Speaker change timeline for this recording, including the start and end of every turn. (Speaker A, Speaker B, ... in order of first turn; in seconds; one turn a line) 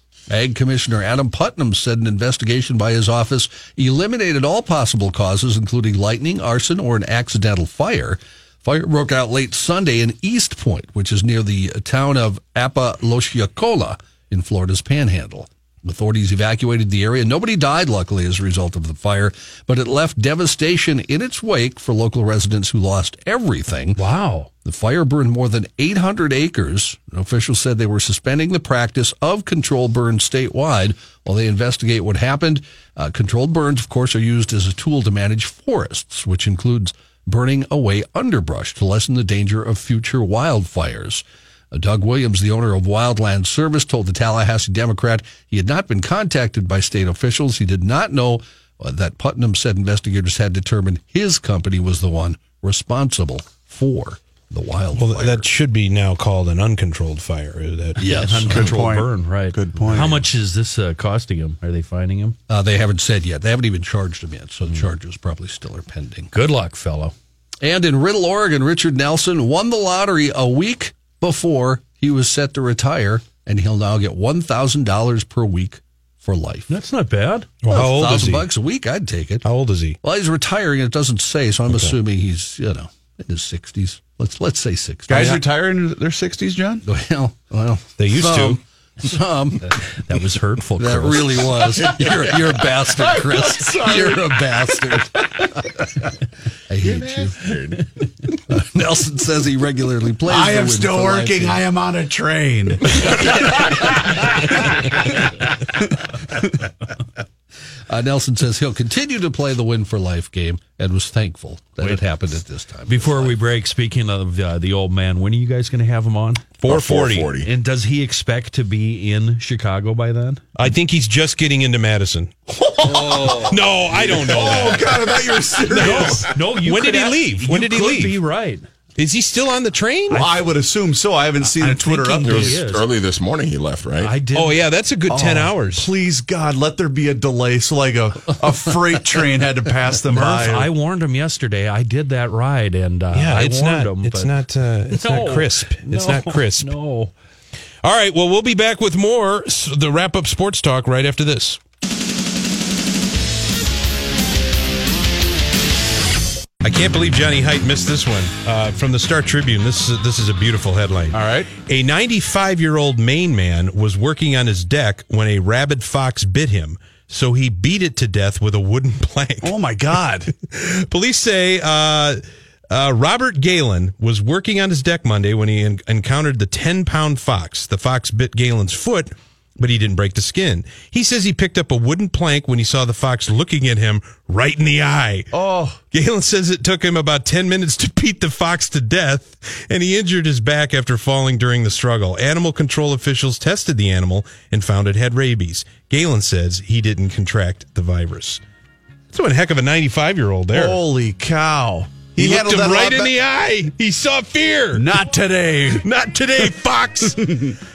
Speaker A: 0.3-24.0
Speaker B: 24.0-24.5
Speaker A: 24.6-55.5
Speaker C: 55.0-58.1
Speaker A: 58.0-58.7
Speaker B: 58.1-62.4
Speaker D: 58.5-60.3
Speaker A: 62.5-66.3
Speaker B: 66.3-67.1
Speaker A: 67.6-76.7
Speaker B: 76.7-77.5
Speaker C: 77.6-78.5
Speaker A: 77.7-79.5
Speaker C: 79.4-80.0
Speaker A: 80.0-85.4
Speaker D: 85.1-86.9
Speaker A: 86.8-89.8
Speaker C: 88.0-88.6
Speaker B: 90.0-91.6
Speaker A: 90.8-95.7
Speaker E: 93.0-94.4
Speaker A: 96.7-97.5
Speaker E: 96.8-97.9
Speaker A: 98.5-101.6
Speaker D: 100.3-103.5
Speaker A: 107.9-113.3
Speaker B: 112.9-116.5
Speaker C: 116.6-117.3
Speaker E: 116.7-117.5
Speaker B: 117.4-120.4
Speaker C: 120.6-122.3
Speaker D: 122.6-126.3
Speaker E: 123.0-123.3
Speaker C: 123.4-124.9
Speaker E: 124.3-125.8
Speaker C: 125.7-128.2
Speaker B: 125.7-128.7
Speaker C: 129.0-130.2
Speaker B: 130.1-130.4
Speaker D: 130.1-132.7
Speaker B: 131.4-132.9
Speaker E: 132.2-134.1
Speaker B: 134.0-134.6
Speaker C: 134.3-135.9
Speaker D: 135.1-140.7
Speaker B: 140.1-144.3
Speaker C: 143.1-146.7
Speaker B: 144.9-147.1
Speaker C: 147.8-151.6
Speaker C: 156.6-169.6
Speaker D: 161.1-161.5
Speaker D: 169.4-170.3
Speaker C: 170.5-185.3
Speaker D: 185.3-185.8
Speaker C: 185.9-198.4
Speaker C: 199.1-200.8
Speaker D: 200.5-203.2
Speaker C: 202.2-205.0
Speaker D: 204.7-205.9
Speaker C: 205.8-207.3
Speaker D: 207.1-207.6